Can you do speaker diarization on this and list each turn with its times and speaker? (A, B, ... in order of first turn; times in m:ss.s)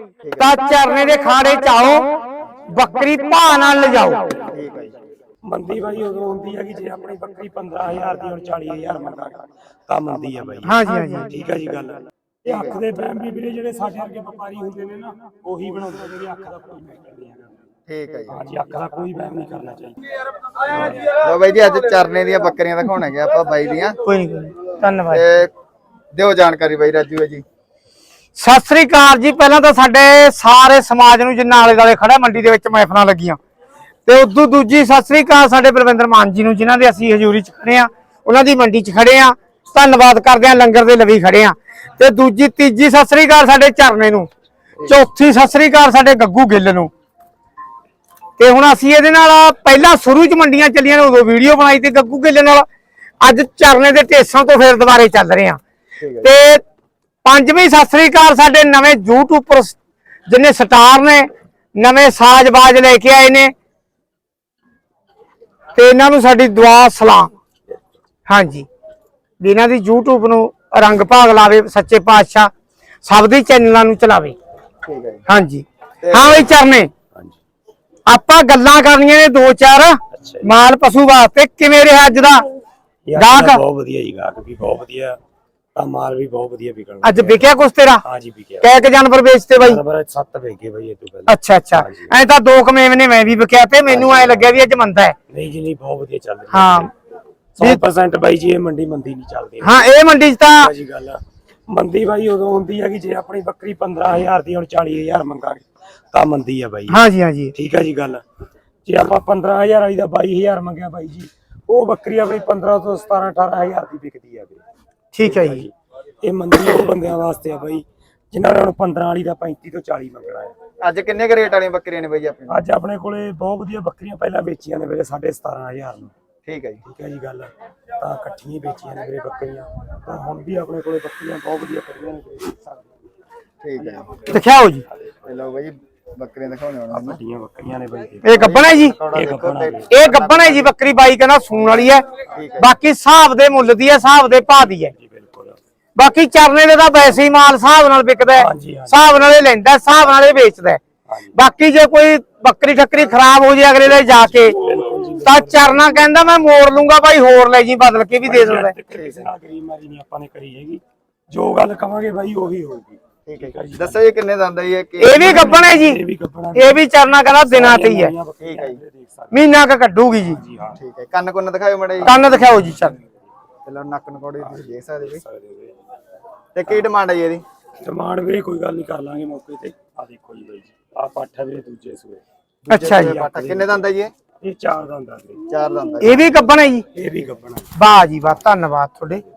0:00.2-0:00.6 A
0:00.4-0:02.2 B
0:02.7-0:04.3 B
0:04.4-0:04.9 A
0:05.4-0:17.6 C
0:10.6-0:11.3 B
0:12.5-0:12.8 A
0:17.9-0:18.4 A
0:18.3-0:20.1 C
0:20.6-0:21.1 C
0:21.0-0:24.0 A
0:24.0-0:25.2 B
0:25.1-0:25.5 A
0:26.1-0:27.4 A
0:28.4-0:33.4 B
0:34.1-0:44.3 B
0:44.8-0:46.9 B
0:48.4-0:52.7 B
0:53.2-0:55.6 B
0:56.0-0:56.3 A
0:56.2-0:56.6 B
0:57.2-1:03.5 B
1:05.8-1:07.3 B
1:08.3-1:08.7 B
1:09.4-1:12.5 B
1:13.0-1:14.4 B
1:14.8-1:15.3 A
1:15.3-1:16.9 B
1:16.0-1:16.5 A
1:18.1-1:22.4 B
1:20.1-1:20.6 C
1:23.1-1:25.2 C
1:23.2-1:23.6 B
1:25.8-1:27.5 C
1:27.0-1:28.0 B
1:28.0-1:28.8 C
1:28.6-1:29.8 B
1:29.6-1:32.2 C
1:31.3-1:35.2 B
1:33.9-1:34.6 C
1:35.3-1:36.9 C
1:36.5-1:36.9 B
1:37.6-1:48.2 C
1:39.6-1:40.7 B
1:46.9-1:47.5 B
1:48.8-1:54.6 C
1:55.1-1:55.6 B
1:55.2-1:55.7 C
1:56.2-2:00.6 C
2:00.8-2:02.6 A
2:02.5-2:06.1 C
2:06.5-2:06.8 A
2:06.8-2:13.0 C
2:13.6-2:14.2 A
2:14.3-2:14.8 B
2:15.2-2:17.2 A
2:16.9-2:18.3 C
2:18.2-2:19.0 B
2:18.3-2:20.7 A
2:19.0-2:19.9 C
2:19.9-2:22.1 B
2:22.3-2:22.7 A
2:22.6-2:24.9 B
2:24.9-2:25.6 C
2:26.0-2:30.8 B
2:28.3-2:29.0 C
2:31.1-2:31.4 C
2:31.3-2:34.6 B
2:33.8-2:35.9 C
2:35.2-2:38.8 B
2:38.2-2:44.0 C
2:38.9-2:39.3 A
2:43.3-2:45.7 A
2:45.0-2:46.0 B
2:45.1-2:49.4 C
2:46.6-2:48.1 B
2:48.4-2:48.8 A
2:49.3-2:50.4 B
2:50.3-2:50.8 C
2:50.8-2:52.2 A
2:52.0-2:53.0 B
2:52.1-2:53.0 C
2:53.6-2:55.2 A
2:54.4-2:55.8 C
2:56.6-2:57.4 A
2:57.8-3:02.2 C
3:02.6-3:04.1 A
3:02.7-3:03.1 B
3:02.7-3:03.8 C
3:04.4-3:05.4 C
3:05.5-3:06.5 A
3:06.0-3:06.8 B
3:06.9-3:07.8 C
3:07.8-3:09.2 B